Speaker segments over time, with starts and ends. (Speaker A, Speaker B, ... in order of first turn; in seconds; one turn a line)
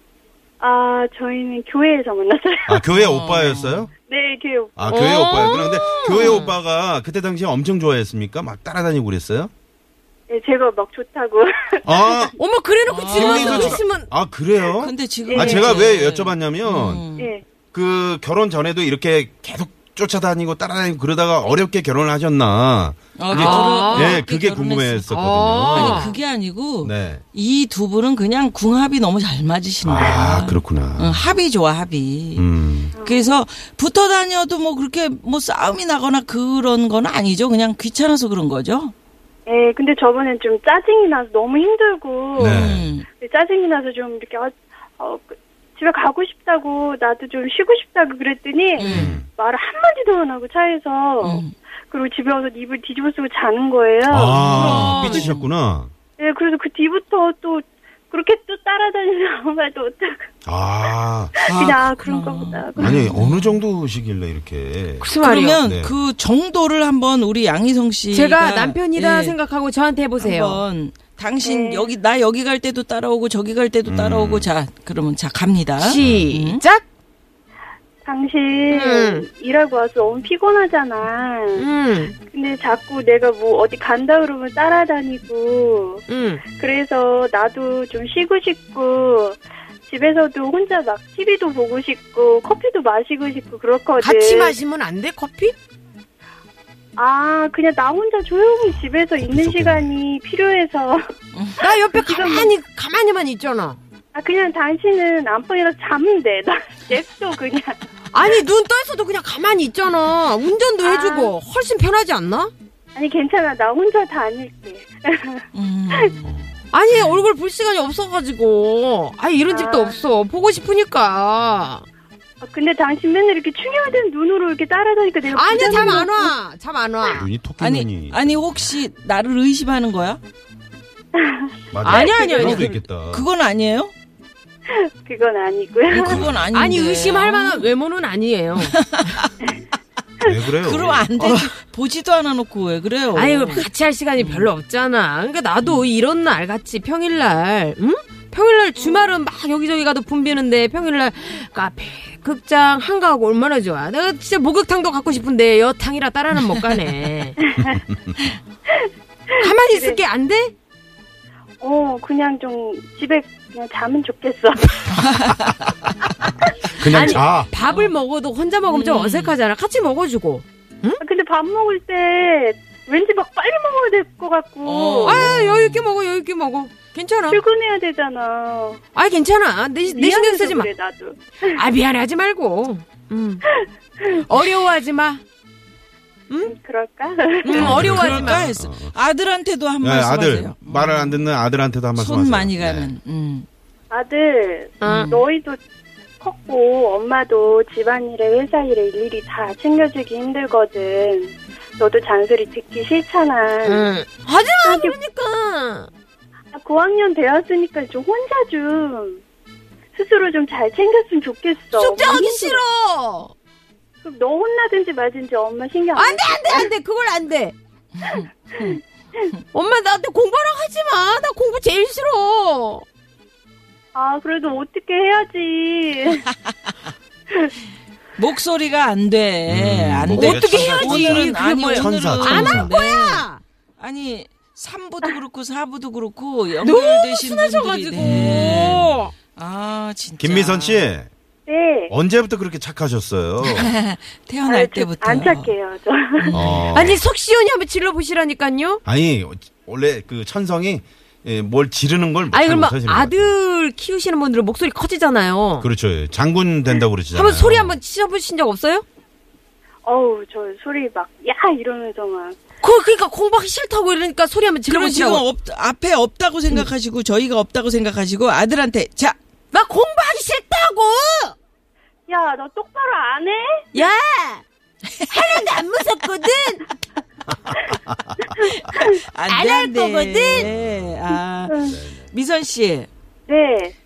Speaker A: 0.6-2.8
Speaker B: 2.7-3.9
Speaker C: 2.9-3.9
Speaker A: 4.1-5.5
Speaker B: 4.8-9.5
Speaker D: 4.9-6.5
Speaker A: 10.3-12.3
Speaker B: 11.8-12.3
Speaker D: 12.4-14.1
Speaker C: 12.9-13.8
Speaker B: 13.1-17.0
Speaker C: 14.8-17.3
Speaker A: 15.3-15.6
Speaker D: 15.4-15.7
Speaker A: 17.1-17.4
Speaker B: 17.7-26.1
Speaker C: 23.2-25.1
Speaker D: 23.3-24.2
Speaker D: 25.1-26.2
Speaker C: 25.7-32.5
Speaker B: 26.8-27.2
Speaker B: 29.8-31.3
Speaker A: 30.0-30.2
Speaker B: 32.4-33.0
Speaker A: 32.9-33.2
Speaker C: 33.0-38.9
Speaker A: 39.5-54.4
Speaker B: 42.4-42.9
Speaker C: 42.4-43.0
Speaker C: 48.8-49.1
Speaker D: 48.9-49.1
Speaker B: 48.9-49.3
Speaker C: 51.2-51.5
Speaker B: 54.0-55.9
Speaker D: 54.2-55.3
Speaker C: 54.3-55.5
Speaker A: 56.2-60.2
Speaker B: 60.4-61.4
Speaker A: 61.4-63.1
Speaker C: 61.5-63.6
Speaker B: 62.8-65.1
Speaker D: 65.0-65.6
Speaker C: 65.2-69.4
Speaker B: 65.6-65.9
Speaker D: 68.1-70.6
Speaker C: 70.2-76.6
Speaker A: 71.4-71.9
Speaker B: 73.8-74.5
Speaker D: 75.8-76.8
Speaker B: 76.0-76.3
Speaker A: 78.0-81.7
Speaker D: 78.7-79.2
Speaker D: 81.5-82.1
Speaker A: 82.2-94.5
Speaker D: 86.1-86.4
Speaker D: 94.0-95.5
Speaker A: 97.0-101.0
Speaker B: 99.2-99.9
Speaker D: 101.6-103.8
Speaker A: 101.9-102.5
Speaker A: 104.1-107.8
Speaker D: 108.1-112.5
Speaker A: 110.8-111.3
Speaker A: 112.9-116.1
Speaker C: 115.5-116.4
Speaker D: 116.7-121.8
Speaker A: 119.5-120.0
Speaker A: 122.4-126.3
Speaker D: 125.3-127.3
Speaker B: 127.0-128.4
Speaker C: 127.6-130.2
Speaker A: 131.2-132.2
Speaker B: 131.7-133.2
Speaker D: 131.8-132.7
Speaker C: 132.3-133.9
Speaker A: 134.7-136.3
Speaker C: 135.9-137.7
Speaker B: 136.0-136.5
Speaker D: 136.5-138.8
Speaker C: 138.6-139.3
Speaker B: 140.2-141.1
Speaker C: 140.6-143.7
Speaker D: 141.2-141.4
Speaker D: 143.1-157.4
Speaker C: 144.2-144.5
Speaker A: 158.7-160.0
Speaker D: 159.4-160.5
Speaker A: 161.6-165.3
Speaker B: 166.8-167.5
Speaker D: 166.8-171.0
Speaker C: 167.0-167.9
Speaker C: 168.7-169.3
Speaker A: 171.0-175.4
Speaker C: 174.6-175.8
Speaker D: 175.0-177.4
Speaker A: 177.3-178.8
Speaker D: 178.9-180.7
Speaker A: 179.9-181.6
Speaker D: 181.5-183.4
Speaker A: 183.5-184.3
Speaker D: 184.2-185.2
Speaker A: 186.4-187.7
Speaker D: 187.4-188.5
Speaker B: 187.6-188.9
Speaker C: 187.6-191.2
Speaker B: 189.8-192.9
Speaker C: 191.9-193.5
Speaker A: 193.9-195.6
Speaker D: 194.8-195.2
Speaker A: 196.2-203.9
Speaker D: 203.6-205.9
Speaker A: 204.6-204.9
Speaker A: 206.5-209.2
Speaker A: 209.9-212.6
Speaker D: 211.7-213.3
Speaker A: 214.0-216.7
Speaker D: 215.9-217.5
Speaker C: 218.0-218.8
Speaker D: 219.5-222.8
Speaker A: 223.9-226.3
Speaker C: 228.2-233.3
Speaker B: 229.5-232.7
Speaker D: 230.1-233.4
Speaker C: 233.8-240.9
Speaker D: 236.6-239.1
Speaker B: 238.0-238.9
Speaker B: 240.2-241.1
Speaker A: 241.5-241.9
Speaker B: 241.9-243.7
Speaker C: 243.4-245.5
Speaker A: 244.4-246.4
Speaker C: 246.2-246.9
Speaker B: 246.3-247.0
Speaker D: 246.7-248.8
Speaker B: 248.8-253.3
Speaker D: 252.3-255.7
Speaker B: 255.6-257.8
Speaker D: 257.1-258.8
Speaker A: 259.8-262.4
Speaker D: 262.6-265.2
Speaker C: 264.7-269.2
Speaker D: 269.5-271.3
Speaker A: 272.1-273.6
Speaker D: 273.7-274.4
Speaker D: 275.1-276.6
Speaker B: 277.7-278.2
Speaker A: 278.7-278.9
Speaker C: 278.7-282.9
Speaker D: 279.3-280.5
Speaker B: 280.3-281.0
Speaker A: 281.5-281.8
Speaker B: 281.7-282.1
Speaker A: 283.3-283.7